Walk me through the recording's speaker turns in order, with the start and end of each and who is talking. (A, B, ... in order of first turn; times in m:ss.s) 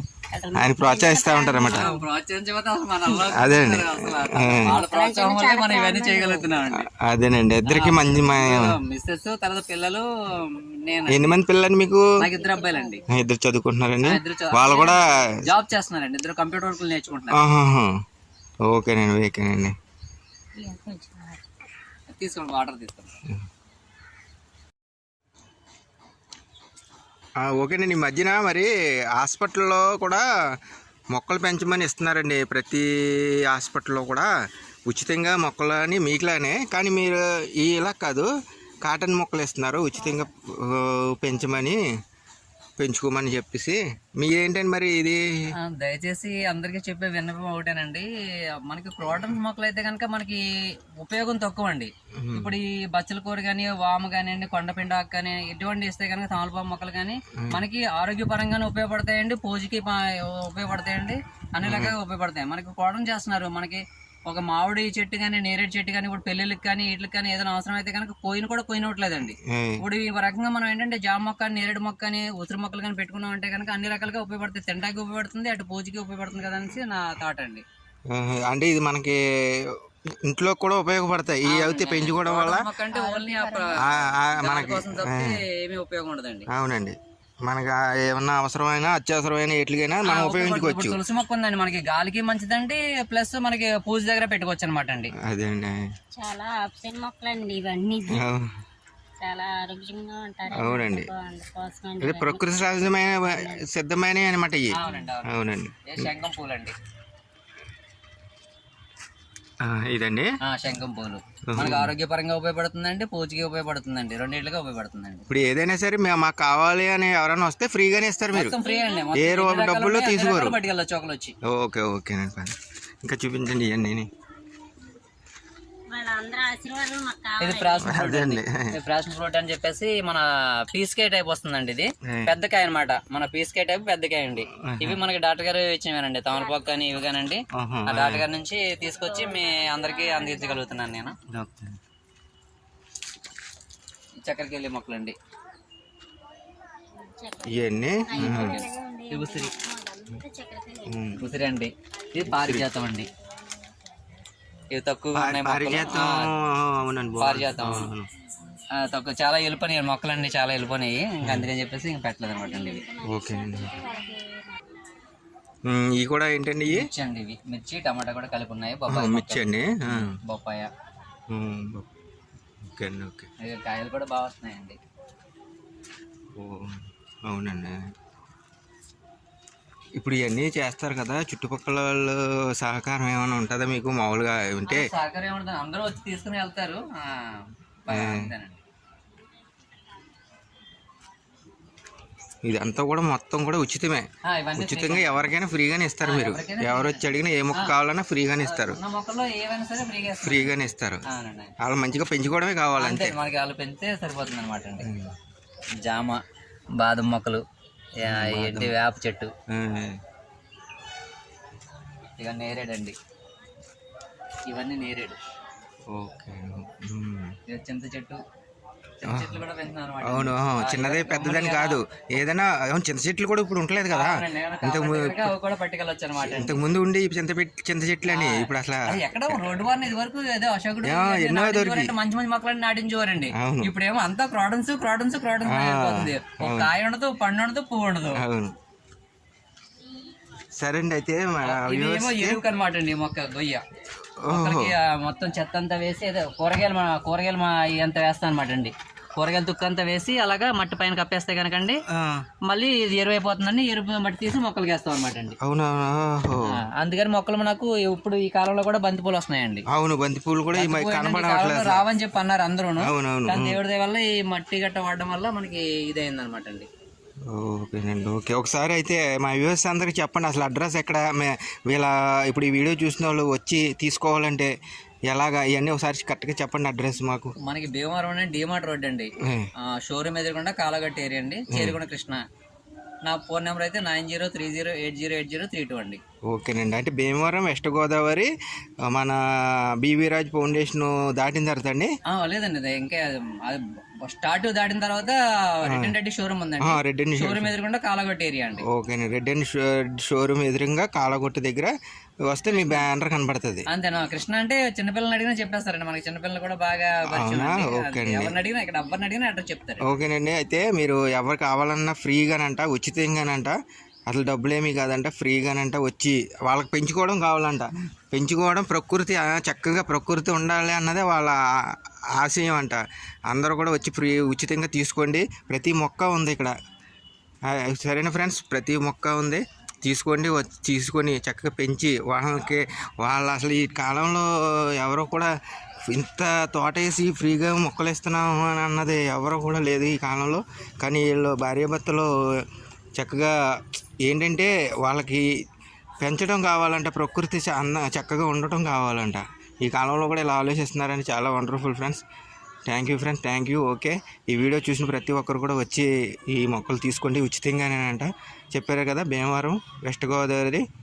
0:00.3-0:02.0 A
0:00.5-0:01.9 B
0:01.7-0:06.9 C
0:03.3-0:04.8 B
0:04.6-0:06.5 A
0:06.8-0:08.7 B
0:07.6-0:11.4 C
0:11.1-0:12.1 B
0:12.2-0:13.0 C
0:12.3-0:13.1 A
0:13.1-0:15.4 B
0:14.0-0:17.4 C
0:17.3-0:17.9 B
0:18.7-0:19.7 B
0:20.6-0:21.4 A
0:22.1-0:23.1 C
0:27.4-0:30.2 B
0:31.1-0:34.3 B
0:34.9-0:38.3 B
0:38.8-0:41.8 B
0:42.8-0:45.2 B
0:45.6-0:48.1 C
0:48.7-0:50.4 C
0:51.0-1:17.6 C
0:52.2-0:52.6 B
1:01.6-1:01.9 B
1:09.4-1:09.8 B
1:18.1-1:19.7 B
1:20.3-1:22.7 B
1:21.4-1:26.5 C
1:22.9-1:23.7 A
1:23.8-1:25.4 B
1:26.5-1:31.0 B
1:30.0-1:35.1 C
1:35.2-1:35.8 B
1:36.1-1:38.3 A
1:38.1-1:38.4 B
1:39.2-1:43.6 A
1:40.5-1:41.1 B
1:42.0-1:46.0 B
1:44.7-1:45.3 C
1:45.8-1:46.8 C
1:49.6-1:50.3 B
1:50.4-1:55.3 C
1:51.5-1:51.9 B
1:55.3-1:58.6 B
1:58.3-2:01.4 C
1:58.6-1:59.1 A
1:59.1-2:00.6 B
2:01.4-2:04.1 B
2:05.9-2:08.0 A
2:07.4-2:21.2 C
2:07.8-2:08.5 B
2:12.1-2:12.3 B
2:14.7-2:15.0 B
2:17.6-2:18.2 B
2:19.1-2:20.8 A
2:21.3-2:21.7 B
2:24.2-2:25.1 C
2:27.0-2:31.4 A
2:27.5-2:28.6 B
2:28.2-2:29.5 C
2:30.8-2:31.2 B
2:31.2-2:33.1 C
2:32.3-2:32.7 B
2:34.7-2:36.3 C
2:35.1-2:38.1 B
2:37.2-2:37.9 C
2:38.7-2:42.9 C
2:41.2-2:41.5 B
2:42.3-2:44.8 A
2:43.0-2:43.7 B
2:45.6-2:46.9 B
2:46.7-2:50.7 C
2:48.9-2:50.1 B
2:51.3-2:51.9 B
2:52.6-2:53.3 B
2:53.4-2:54.8 C
2:56.4-2:57.8 B
3:00.0-3:04.9 B
3:04.7-3:08.6 C
3:07.9-3:08.3 B
3:12.4-3:18.8 B
3:14.3-3:15.3 C
3:16.0-3:17.7 C
3:18.4-3:20.5 C
3:20.2-3:21.0 B
3:21.1-3:21.5 C
3:21.6-3:23.2 B
3:22.8-3:24.9 C
3:24.8-3:25.1 B
3:25.8-3:26.2 C
3:26.8-3:27.4 C
3:28.0-3:29.3 C
3:28.0-3:28.7 B
3:29.5-3:29.9 B
3:32.2-3:33.0 C
3:34.4-3:35.2 C
3:35.9-3:37.3 B
3:37.5-3:38.2 C
3:39.0-3:41.8 C
3:39.1-3:39.4 B
3:40.0-3:45.3 B
3:43.9-3:46.6 C
3:46.2-3:49.7 B
3:48.1-3:58.2 C
3:50.8-3:51.9 B
3:53.3-3:53.7 B
3:55.4-3:56.7 B
3:58.1-3:58.5 B
4:00.6-4:02.4 B
4:01.4-4:03.6 C
4:04.2-4:04.7 B
4:04.3-4:11.8 C
4:11.9-4:12.2 B
4:12.5-4:15.4 C
4:15.4-4:16.6 B
4:16.5-4:19.6 C
4:19.7-4:21.8 B
4:20.5-4:26.7 C
4:22.8-4:23.6 B
4:27.3-4:34.5 B
4:35.1-4:37.3 B
4:37.4-4:39.1 C
4:39.6-4:42.2 C
4:41.5-4:41.8 B
4:43.0-4:46.0 C
4:46.3-4:48.3 B
4:48.9-4:49.2 B
4:49.8-4:51.9 B
4:52.1-4:58.6 C
4:55.7-4:55.9 B
4:56.6-4:57.5 B
4:58.6-5:01.7 B
5:02.3-5:03.6 B
5:02.5-5:02.9 C
5:03.7-5:09.9 C
5:07.1-5:08.4 B
5:09.8-5:13.5 B
5:14.1-5:26.6 B
5:27.5-5:35.3 B
5:35.9-5:42.1 B
5:43.0-5:45.2 B
5:46.0-5:52.0 B
5:52.7-6:00.6 B